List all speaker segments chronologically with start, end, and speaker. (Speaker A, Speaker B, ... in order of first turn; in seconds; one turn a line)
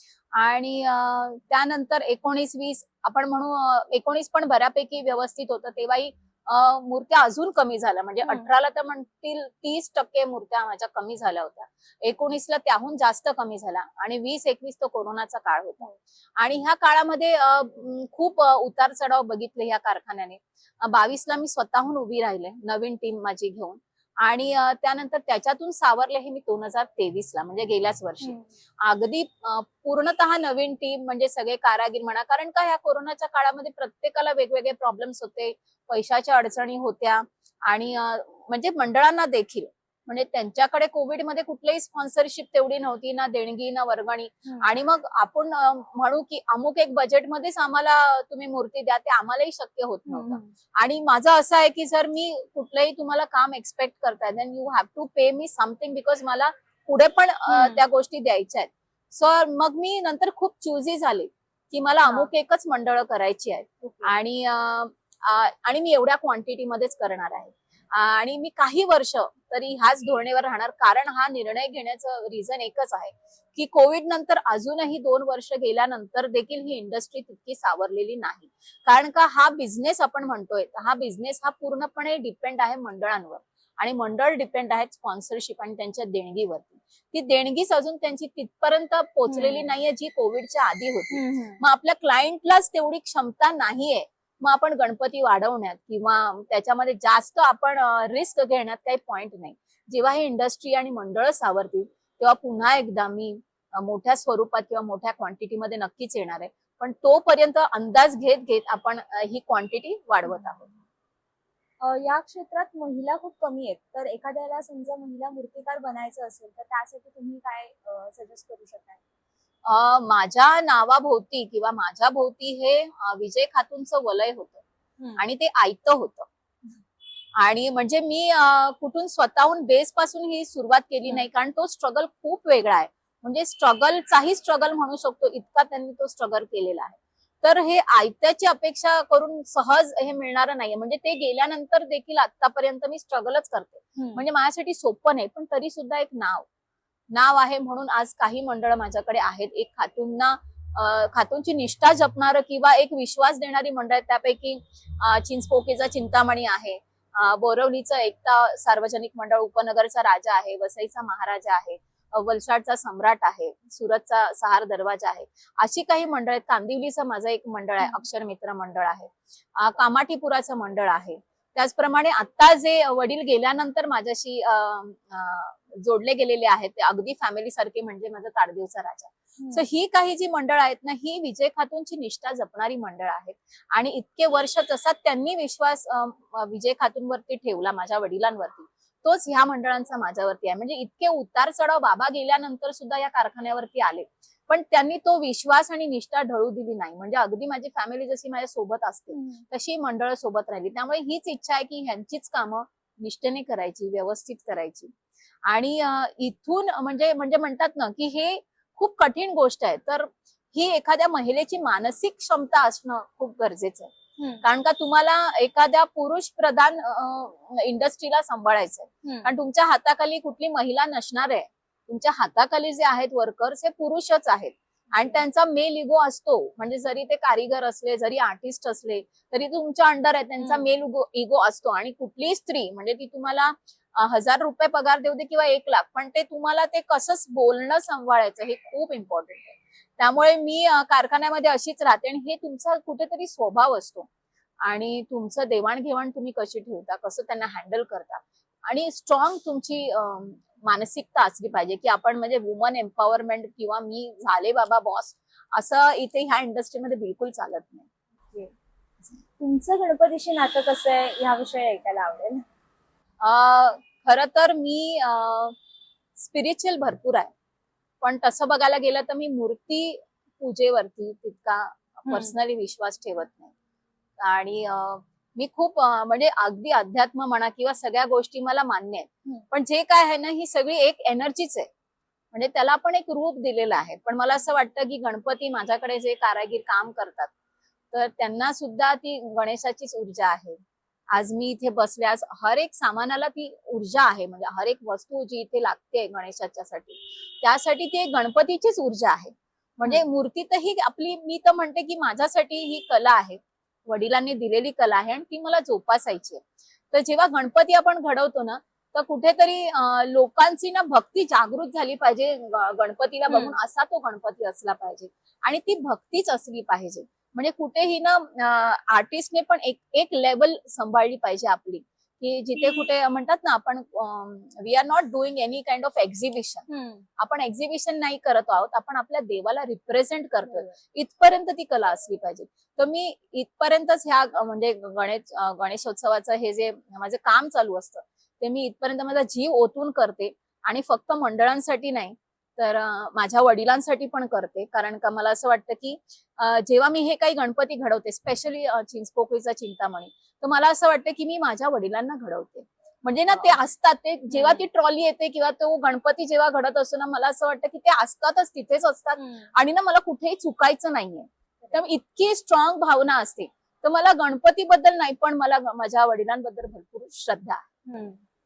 Speaker A: 0.4-110.7
Speaker B: 8.2-8.5
Speaker B: 28.2-28.5
Speaker B: 50.1-50.5
Speaker B: 57.5-57.8
Speaker B: 63.8-64.2
Speaker B: 89.3-89.7
Speaker B: 91.1-91.6
Speaker B: 111.8-119.0
Speaker A: 119.7-124.6
Speaker A: 125.2-126.3
Speaker A: 127.4-146.5
Speaker B: 144.0-144.2
Speaker A: 147.1-204.9
Speaker B: 199.1-199.4
Speaker A: 205.5-244.1
Speaker B: 214.2-214.4
Speaker B: 219.1-219.3
Speaker B: 224.9-225.2
Speaker A: 244.6-257.9
Speaker B: 259.4-262.4
Speaker A: 263.2-265.6
Speaker A: 266.2-267.3
Speaker A: 268.0-273.5
Speaker B: 272.1-272.3
Speaker A: 274.2-281.7
Speaker A: 282.3-287.3
Speaker A: 287.9-290.6
Speaker A: 291.1-326.6
Speaker B: 313.3-313.6
Speaker B: 326.7-327.0
Speaker A: 327.2-367.7
Speaker B: 330.5-330.7
Speaker B: 354.3-354.7
Speaker B: 359.2-359.5
Speaker B: 367.9-368.2